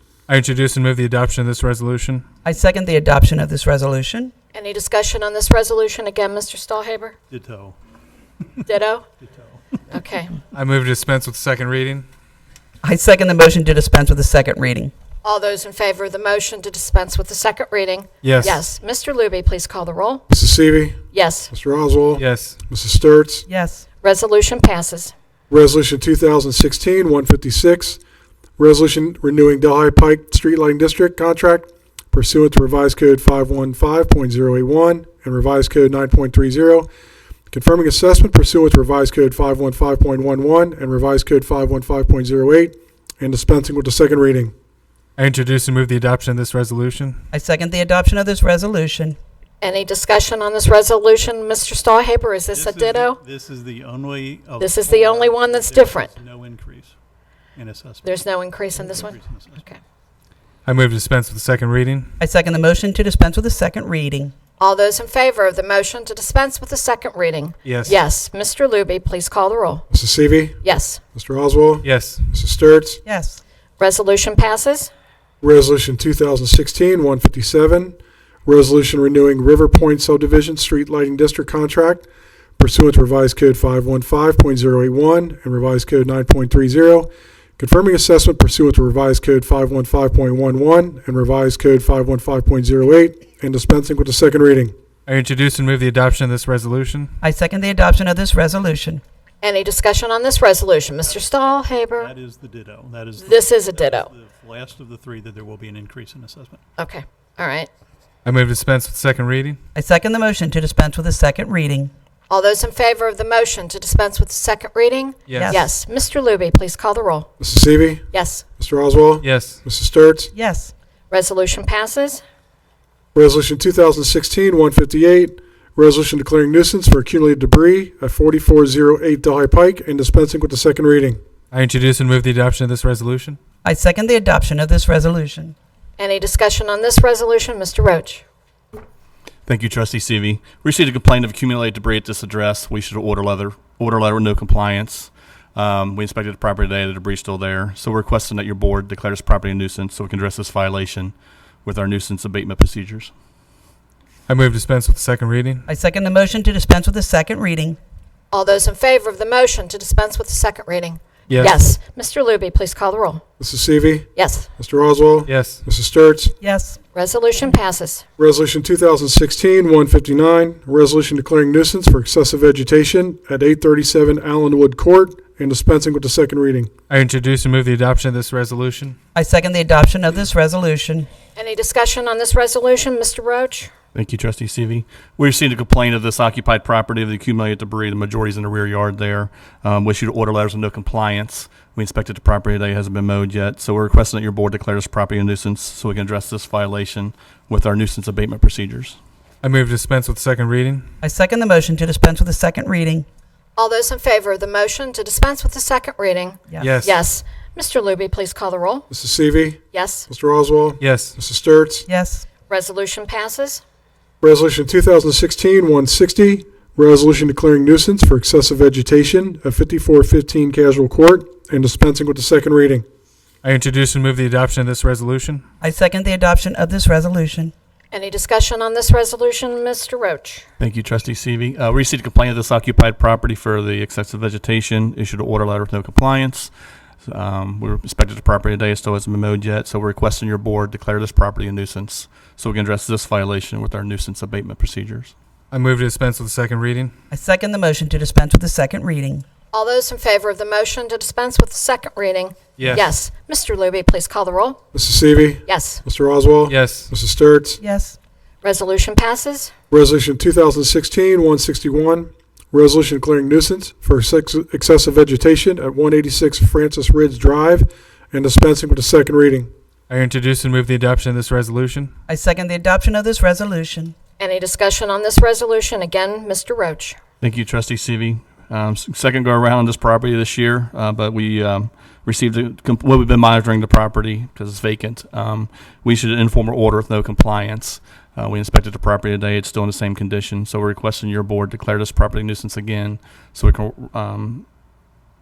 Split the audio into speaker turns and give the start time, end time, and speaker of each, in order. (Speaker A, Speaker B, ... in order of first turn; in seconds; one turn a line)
Speaker A: 0.3-2.2
Speaker B: 2.4-4.3
Speaker C: 4.5-7.2
Speaker D: 7.3-7.8
Speaker C: 8.7-9.1
Speaker D: 9.2-9.6
Speaker C: 9.9-10.4
Speaker A: 10.5-12.1
Speaker B: 12.8-14.9
Speaker C: 15.2-20.2
Speaker A: 18.2-18.6
Speaker E: 20.3-21.0
Speaker C: 21.1-21.5
Speaker E: 21.5-23.5
Speaker A: 22.2-22.6
Speaker B: 23.5-23.9
Speaker C: 24.0-25.1
Speaker E: 25.5-28.0
Speaker E: 28.6-36.9
Speaker E: 37.5-44.5
Speaker A: 45.2-47.2
Speaker B: 47.3-49.2
Speaker C: 49.6-53.2
Speaker D: 52.5-56.9
Speaker C: 54.6-56.1
Speaker D: 57.5-59.7
Speaker C: 58.0-59.8
Speaker A: 60.6-62.1
Speaker B: 62.2-64.3
Speaker C: 64.6-69.8
Speaker A: 67.6-67.9
Speaker E: 69.9-70.6
Speaker C: 70.6-71.0
Speaker E: 71.1-73.0
Speaker A: 71.8-72.2
Speaker B: 73.0-73.4
Speaker C: 73.8-74.9
Speaker E: 75.4-82.0
Speaker E: 82.6-94.7
Speaker A: 95.1-97.1
Speaker B: 97.2-99.0
Speaker C: 99.4-102.1
Speaker D: 101.0-101.3
Speaker D: 102.0-106.6
Speaker C: 103.2-104.1
Speaker C: 106.8-107.7
Speaker A: 108.2-109.6
Speaker B: 109.7-111.9
Speaker C: 112.3-117.3
Speaker A: 115.3-115.6
Speaker B: 115.3-115.6
Speaker E: 117.4-118.0
Speaker C: 118.1-118.4
Speaker E: 118.6-120.3
Speaker A: 119.2-119.6
Speaker B: 120.3-120.7
Speaker C: 121.1-122.2
Speaker E: 123.1-131.2
Speaker A: 131.5-133.4
Speaker B: 133.6-135.5
Speaker C: 136.0-138.2
Speaker F: 139.4-151.1
Speaker F: 151.6-153.1
Speaker A: 154.3-155.6
Speaker B: 155.7-157.8
Speaker C: 158.3-163.2
Speaker A: 161.3-161.6
Speaker E: 163.4-166.3
Speaker C: 164.2-164.5
Speaker A: 165.3-165.6
Speaker B: 166.4-166.8
Speaker C: 166.9-168.0
Speaker E: 168.2-176.7
Speaker A: 176.9-179.0
Speaker B: 179.1-181.1
Speaker C: 181.3-183.7
Speaker F: 183.9-199.0
Speaker A: 199.4-200.8
Speaker B: 201.0-203.1
Speaker C: 203.6-208.9
Speaker B: 206.5-206.8
Speaker A: 206.6-206.9
Speaker E: 208.9-211.9
Speaker C: 209.7-210.1
Speaker A: 210.8-211.1
Speaker B: 211.9-212.3
Speaker C: 212.5-213.6
Speaker E: 214.2-222.8
Speaker A: 223.4-225.4
Speaker B: 225.6-227.5
Speaker C: 227.9-230.4
Speaker F: 230.6-236.5
Speaker F: 237.0-245.1
Speaker A: 245.5-246.9
Speaker B: 247.1-249.2
Speaker C: 249.5-254.6
Speaker A: 252.6-252.8
Speaker E: 254.7-257.6
Speaker C: 255.5-255.8
Speaker A: 256.5-256.9
Speaker B: 257.6-257.9
Speaker C: 258.4-259.5
Speaker E: 259.7-269.5
Speaker A: 269.9-271.9
Speaker B: 272.1-273.9
Speaker C: 274.2-277.0
Speaker F: 277.2-294.4